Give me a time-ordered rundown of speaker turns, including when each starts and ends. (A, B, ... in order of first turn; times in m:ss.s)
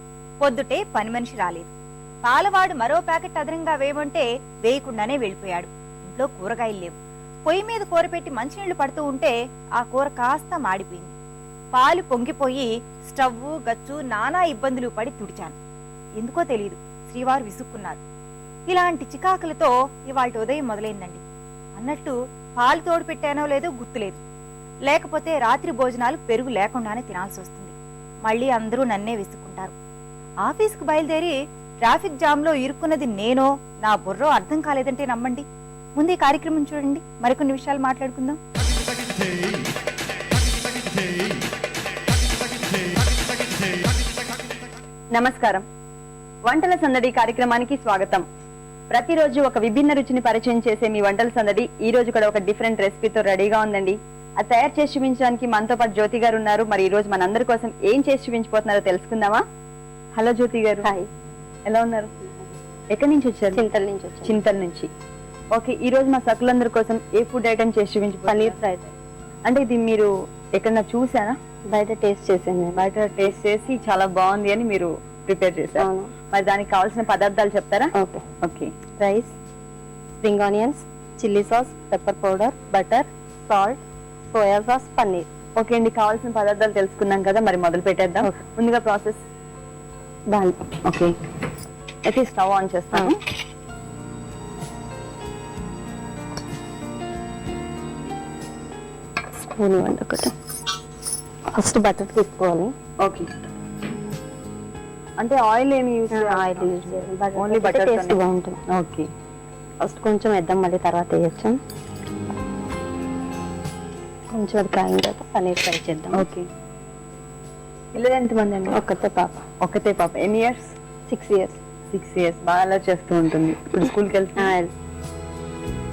0:00.4-0:01.7 A
0:02.2-0:11.1 A
0:11.7-0:15.6 A
0:16.2-0:18.0 A
0:18.7-0:21.2 A
0:21.8-0:24.2 A
0:24.8-0:27.7 A
0:28.2-0:29.7 A
0:30.4-0:38.4 A
0:45.2-0:45.6 B
0:46.5-0:48.3 B
0:48.9-0:59.4 B
1:00.1-1:00.9 B
1:00.8-1:01.1 C
1:01.7-1:02.1 B
1:02.9-1:03.6 B
1:03.5-1:04.4 C
1:04.2-1:04.9 B
1:05.5-1:08.6 B
1:08.3-1:08.9 C
1:09.5-1:11.4 B
1:11.7-1:12.8 C
1:12.8-1:17.9 B
1:15.8-1:16.1 C
1:18.0-1:18.2 C
1:18.4-1:18.7 B
1:19.0-1:19.3 C
1:20.2-1:23.8 C
1:24.3-1:25.3 C
1:25.6-1:29.2 B
1:30.3-1:30.6 C
1:30.8-1:31.2 B
1:32.1-1:33.2 B
1:39.4-1:40.3 C
1:41.5-1:42.7 C
1:45.2-1:48.2 B
1:46.1-1:48.6 C
1:48.7-1:49.1 B
1:49.8-1:51.6 C
1:54.3-1:56.3 C
1:56.1-1:56.5 B
1:57.9-1:58.8 B
1:58.7-1:59.4 C
1:59.6-2:00.8 B
2:01.1-2:01.6 C
2:01.9-2:04.6 B
2:04.4-2:04.7 C